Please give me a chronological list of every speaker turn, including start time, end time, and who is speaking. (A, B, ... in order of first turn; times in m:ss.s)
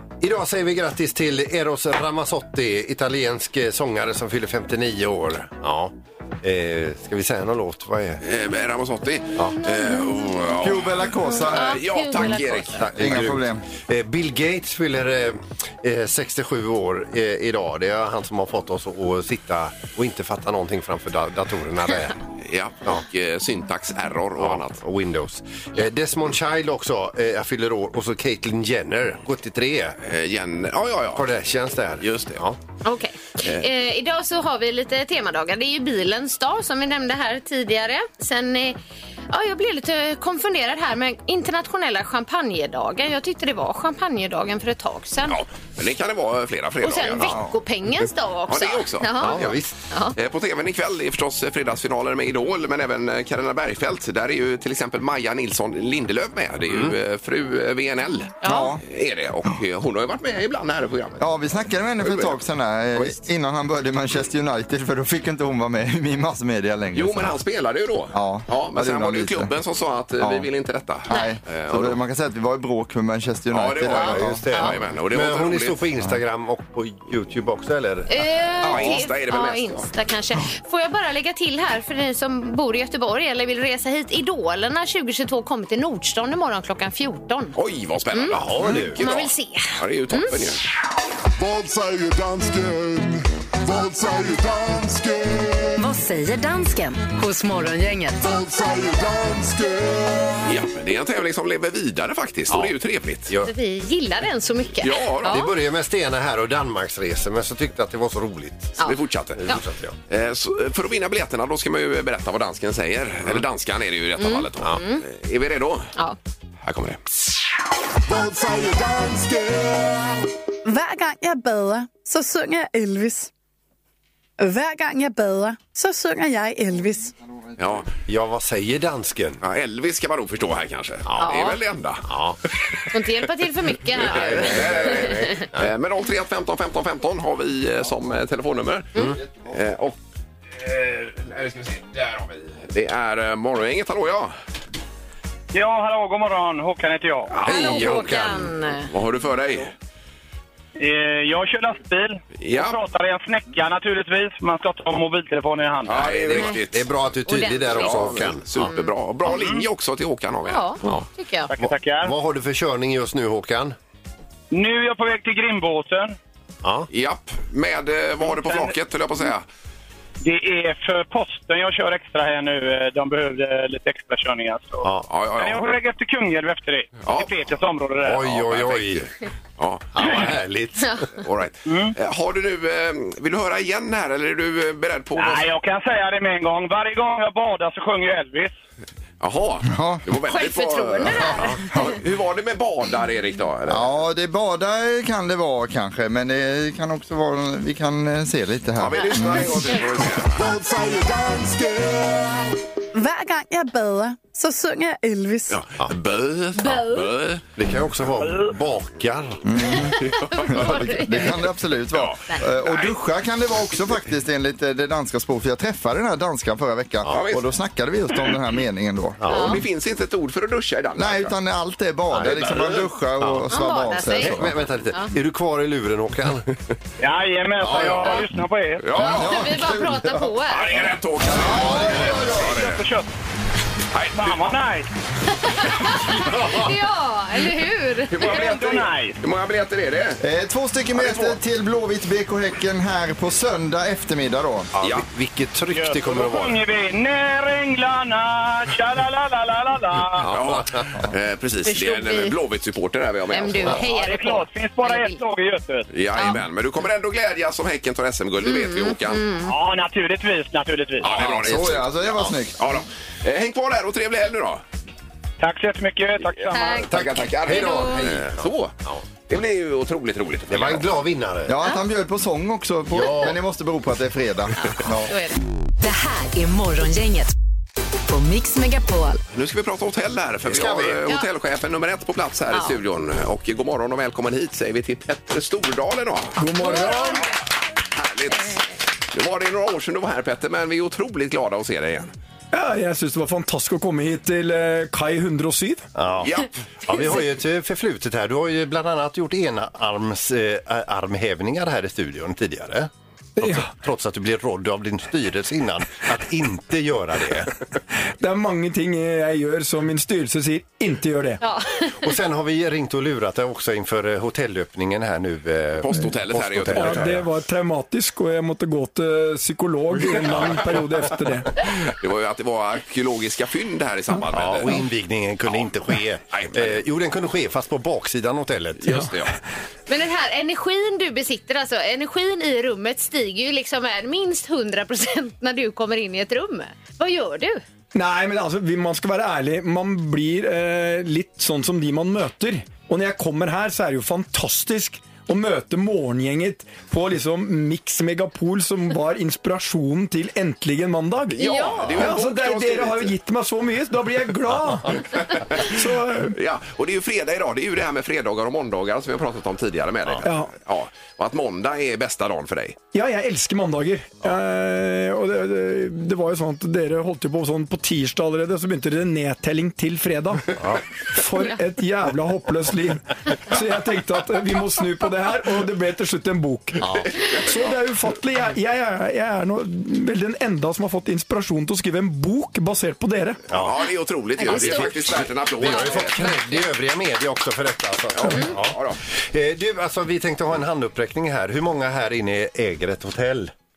0:00.2-0:08.2 A
0:08.2-0:12.9 B
0:09.7-0:10.3 C
0:10.6-0:11.8 D
0:11.3-0:12.9 C
0:12.8-0:22.2 A
0:12.9-0:13.6 D
0:22.4-0:24.8 B
0:24.4-0:30.0 A
0:30.0-0:31.3 B
0:31.1-0:32.6 A
0:32.0-0:32.4 B
0:32.8-0:38.8 C
0:39.3-0:45.4 C
0:45.3-0:47.4 B
0:46.8-0:50.2 C
0:47.2-0:47.6 D
0:48.5-0:49.6 B
0:49.2-0:49.7 A
0:50.2-1:01.3 B
0:56.7-0:57.0 A
0:58.4-0:58.7 C
0:58.4-0:58.8 D
1:01.2-1:07.4 D
1:02.0-1:02.4 B
1:06.9-1:12.0 B
1:08.1-1:09.5 D
1:10.2-1:10.5 D
1:11.1-1:14.4 D
1:13.5-1:15.8 B
1:13.9-1:18.1 A
1:18.1-1:27.6 C
1:18.6-1:19.9 B
1:27.6-1:30.6 B
1:28.1-1:30.6 C
1:28.3-1:29.0 A
1:31.4-1:35.8 E
1:35.8-1:38.2 F
1:38.2-1:40.4 E
1:40.4-1:43.3 B
1:42.5-1:42.8 A
1:43.3-1:43.5 A
1:43.4-1:45.6 C
1:44.8-1:45.4 B
1:45.2-1:48.8 A
1:48.8-1:49.6 C
1:48.8-1:49.5 B
1:49.4-1:50.0 A
1:50.1-1:55.9 B
1:54.2-1:55.0 C
1:56.6-1:57.0 B
1:58.1-2:00.2 E
2:00.6-2:03.3 G
2:04.4-2:07.1 G
2:07.6-2:07.9 B
2:08.1-2:09.4 A
2:09.4-2:12.1 B
2:11.1-2:11.4 A
2:11.2-2:11.6 C
2:12.0-2:12.4 A
2:12.9-2:15.4 C
2:14.0-2:20.0 B
2:14.0-2:15.7 A
2:20.6-2:24.4 B
2:25.5-2:27.3 H
2:27.3-2:28.0 B
2:27.4-2:28.5 A
2:27.4-2:28.9 C
2:28.9-2:29.7 B
2:30.8-2:36.2 H
2:32.4-2:32.8 B
2:35.8-2:36.9 B
2:36.1-2:38.7 A
2:37.3-2:38.9 C
2:37.7-2:41.0 B
2:39.3-2:39.6 H
2:40.5-2:41.5 C
2:40.8-2:41.1 A
2:41.5-2:42.1 H
2:41.6-2:43.8 A
2:44.5-2:46.2 H
2:46.6-2:46.9 A
2:46.9-2:49.4 B
2:48.2-2:48.8 H
2:50.2-2:58.2 H
2:55.1-2:55.7 B
2:57.0-2:57.4 B
2:58.0-2:59.1 A
2:58.2-3:00.4 B
2:59.9-3:01.0 A
3:00.8-3:01.1 C
3:01.2-3:05.5 B
3:01.7-3:02.0 H
3:05.2-3:08.5 H
3:09.2-3:14.0 B
3:09.6-3:10.0 D
3:10.3-3:11.9 C
3:13.7-3:19.8 D
3:18.8-3:20.4 B
3:20.4-3:22.5 E
3:22.9-3:25.6 G
3:25.5-3:27.4 B
3:26.6-3:27.1 C
3:27.6-3:29.4 A
3:29.4-3:39.3 D
3:29.7-3:31.5 C
3:30.0-3:30.8 B
3:31.9-3:33.0 B
3:37.1-3:37.5 B
3:39.2-3:39.6 A
3:39.3-3:39.6 C
3:39.3-3:41.3 B
3:41.0-3:44.6 D
3:42.1-3:42.5 A
3:42.3-3:42.9 B
3:43.2-3:43.5 A
3:43.5-3:45.1 C
3:44.2-3:46.5 A
3:47.0-3:48.9 H
3:47.6-3:48.2 A
3:48.8-3:49.5 B
3:49.0-3:50.4 D
3:49.2-3:50.9 C
3:50.5-3:52.8 B
3:51.2-3:52.6 D
3:51.6-3:53.1 H
3:53.9-3:54.5 B
3:54.2-3:54.9 H
3:55.3-3:58.4 C
3:56.1-3:56.8 A
3:58.1-4:00.2 B
3:58.2-3:59.2 H
4:00.2-4:04.7 D
4:00.9-4:01.4 B
4:04.8-4:06.6 A
4:05.7-4:10.3 H
4:10.2-4:11.0 A
4:10.2-4:13.8 B
4:11.6-4:12.4 C
4:13.3-4:15.2 C
4:13.8-4:15.9 H
4:15.9-4:19.3 B
4:16.2-4:16.4 C
4:18.4-4:19.5 C
4:19.5-4:21.1 H
4:21.0-4:24.6 B
4:21.1-4:22.8 D
4:25.4-4:26.9 H
4:26.2-4:30.9 B
4:26.5-4:26.9 C
4:26.9-4:29.1 A
4:27.5-4:28.0 C
4:30.5-4:31.6 A
4:31.5-4:35.2 D
4:32.9-4:33.4 A
4:35.1-4:35.4 C
4:35.8-4:37.3 F
4:38.1-4:39.2 F
4:39.3-4:47.1 B
4:40.4-4:41.1 A
4:42.5-4:42.8 C
4:46.4-4:47.2 I
4:46.6-4:47.3 C
4:48.0-4:52.1 B
4:52.5-4:55.9 I
4:56.0-5:07.5 A
4:56.2-4:56.5 B
5:03.4-5:03.7 I
5:08.2-5:11.4 I
5:11.4-5:12.1 C
5:12.0-5:17.3 A
5:15.8-5:17.2 B
5:16.7-5:21.5 I
5:20.2-5:20.6 A
5:21.6-5:24.9 B
5:24.3-5:29.1 A
5:25.5-5:25.7 B
5:26.3-5:26.8 B
5:28.8-5:29.4 B
5:29.9-5:37.6 C
5:37.9-5:55.0 I
5:51.3-5:53.1 B
5:51.4-5:52.1 C
5:55.6-5:56.4 I
5:56.2-6:02.8 B
6:00.2-6:00.5 I
6:02.9-6:10.5 I
6:10.6-6:10.8 A
6:11.1-6:16.8 I
6:16.8-6:17.1 A
6:17.4-6:23.4 I
6:23.5-6:23.8 A
6:23.5-6:26.3 B
6:24.4-6:26.7 C
6:24.4-6:33.5 A
6:28.2-6:29.0 B